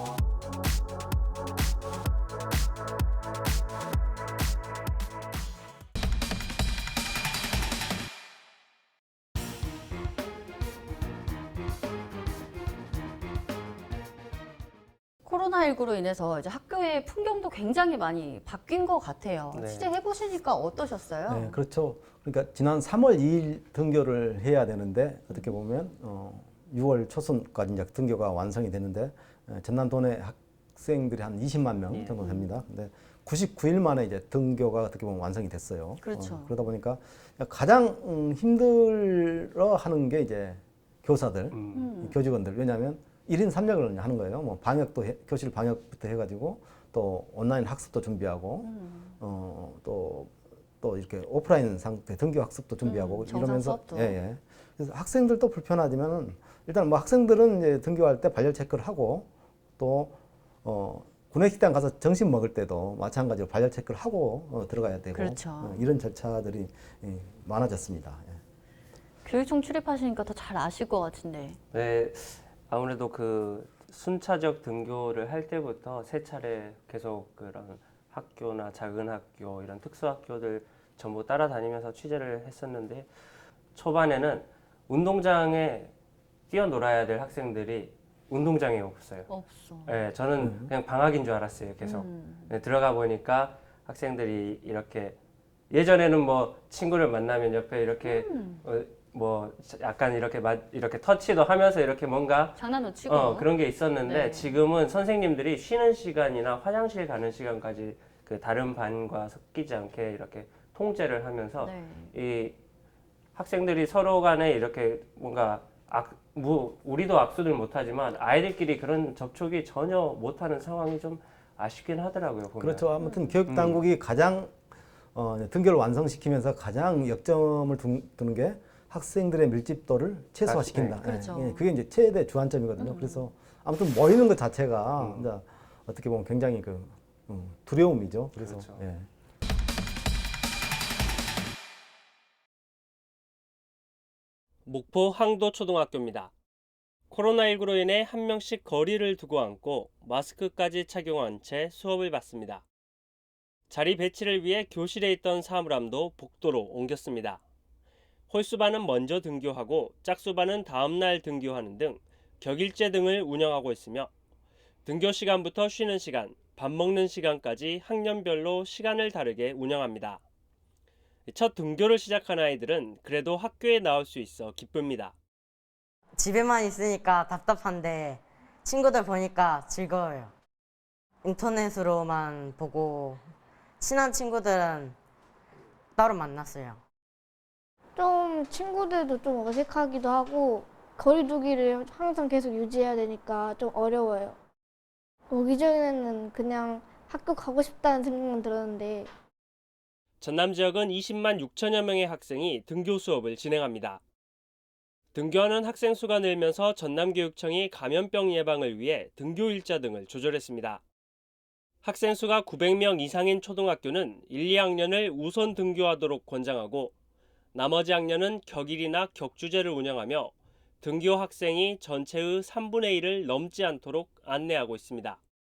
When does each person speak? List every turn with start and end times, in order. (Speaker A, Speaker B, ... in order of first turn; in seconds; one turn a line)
Speaker A: 15.2-21.6
Speaker B: 19.5-19.9
Speaker C: 21.3-68.4
Speaker B: 31.9-32.2
Speaker A: 32.2-32.5
Speaker A: 36.0-36.5
Speaker B: 41.5-41.9
Speaker A: 41.7-42.2
Speaker A: 48.6-49.1
Speaker A: 52.8-54.2
Speaker A: 65.1-65.8
Speaker A: 69.2-71.6
Speaker B: 71.7-83.1
Speaker B: 83.7-85.9
Speaker B: 86.5-89.3
Speaker A: 89.3-90.0
Speaker B: 89.8-95.2
Speaker C: 90.4-90.7
Speaker A: 91.8-92.5
Speaker B: 95.7-112.6
Speaker A: 98.0-98.6
Speaker A: 102.6-103.5
Speaker A: 104.0-104.5
Speaker A: 111.6-112.1
Speaker B: 113.3-122.9
Speaker C: 122.6-124.6
Speaker A: 123.0-123.3
Speaker B: 123.5-123.8
Speaker C: 125.1-139.1
Speaker B: 130.4-131.0
Speaker A: 131.0-131.6
Speaker A: 132.8-133.3
Speaker B: 135.0-135.3
Speaker B: 138.4-138.8
Speaker B: 144.7-146.3
Speaker B: 147.1-152.6
Speaker B: 153.7-157.4
Speaker B: 158.3-164.1
Speaker B: 164.8-170.2
Speaker B: 171.3-175.1
Speaker D: 176.1-180.3
Speaker D: 181.2-183.2
Speaker D: 183.8-184.9
Speaker D: 185.9-186.8
Speaker E: 187.9-194.4
Speaker E: 195.3-199.1
Speaker B: 200.2-204.0
Speaker B: 205.1-210.8
Speaker B: 211.8-216.9
Speaker B: 217.5-225.2